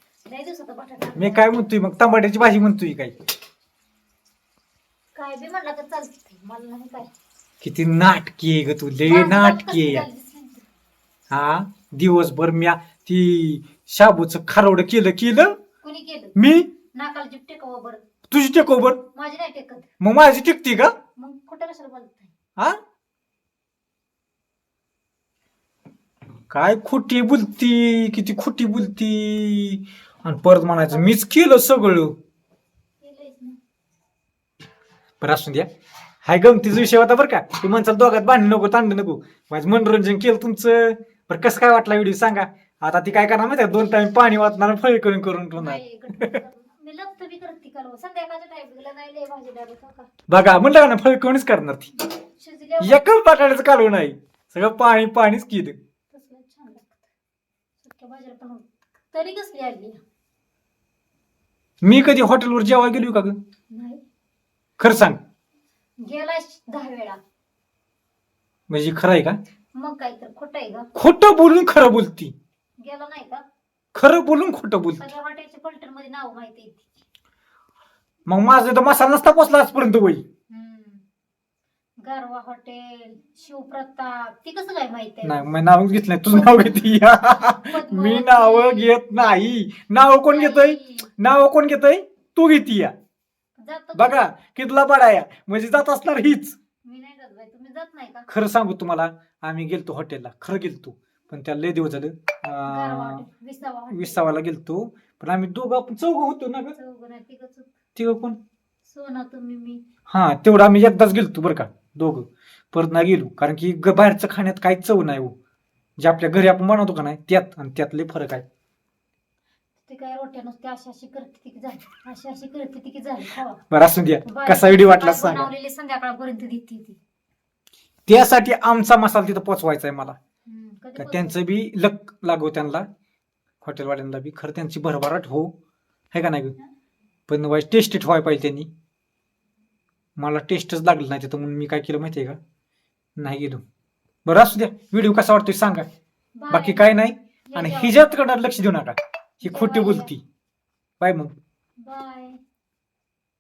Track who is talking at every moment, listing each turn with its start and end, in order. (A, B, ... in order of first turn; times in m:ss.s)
0:00.3-0:01.5 A
0:01.2-0:03.2 B
0:05.2-0:07.1 A
0:07.6-0:10.1 B
0:09.1-0:10.7 A
0:11.3-0:15.6 B
0:15.8-0:16.4 A
0:16.4-0:16.7 B
0:16.9-0:18.0 A
0:18.3-0:19.0 B
0:19.2-0:19.9 A
0:20.0-0:20.9 B
0:21.2-0:22.3 A
0:26.5-0:32.2 B
0:33.0-0:33.6 A
0:35.2-0:35.7 B
0:36.2-0:46.4 B
0:45.6-0:50.1 A
0:50.3-0:51.9 B
0:52.1-0:53.1 A
0:52.8-0:55.8 B
0:56.1-0:57.1 A
0:57.8-1:00.0 A
1:01.8-1:03.4 B
1:03.7-1:04.0 A
1:04.8-1:05.2 B
1:06.0-1:07.2 A
1:08.7-1:09.4 B
1:09.8-1:10.9 A
1:10.9-1:12.3 B
1:12.8-1:13.4 A
1:14.0-1:15.0 B
1:15.0-1:17.0 A
1:18.3-1:20.2 B
1:20.5-1:21.0 A
1:22.0-1:25.5 A
1:25.2-1:32.9 B
1:26.3-1:26.8 A
1:27.7-1:29.0 A
1:30.3-1:31.1 A
1:33.6-1:34.3 A
1:34.0-1:36.6 B
1:36.8-1:38.3 A
1:38.3-1:43.2 B
1:42.6-1:44.3 A
1:43.9-1:46.8 B
1:46.8-1:47.7 A
1:48.0-1:48.4 B
1:48.8-1:49.8 A
1:50.1-1:55.4 B
1:56.0-1:58.4 B
1:59.9-2:03.6 A
2:03.7-2:05.5 B
2:04.3-2:07.0 A
2:08.1-2:10.2 B
2:10.5-2:11.4 A
2:11.0-2:12.9 B
2:13.6-2:15.5 B
2:16.1-2:16.6 B
2:17.3-2:18.7 B
2:20.2-2:22.4 B
2:23.2-2:23.6 B
2:24.3-2:25.9 B
2:26.4-2:27.0 A
2:26.5-2:30.2 B
2:27.5-2:28.2 A
2:29.4-2:30.1 A
2:31.0-2:31.3 B
2:31.8-2:32.4 A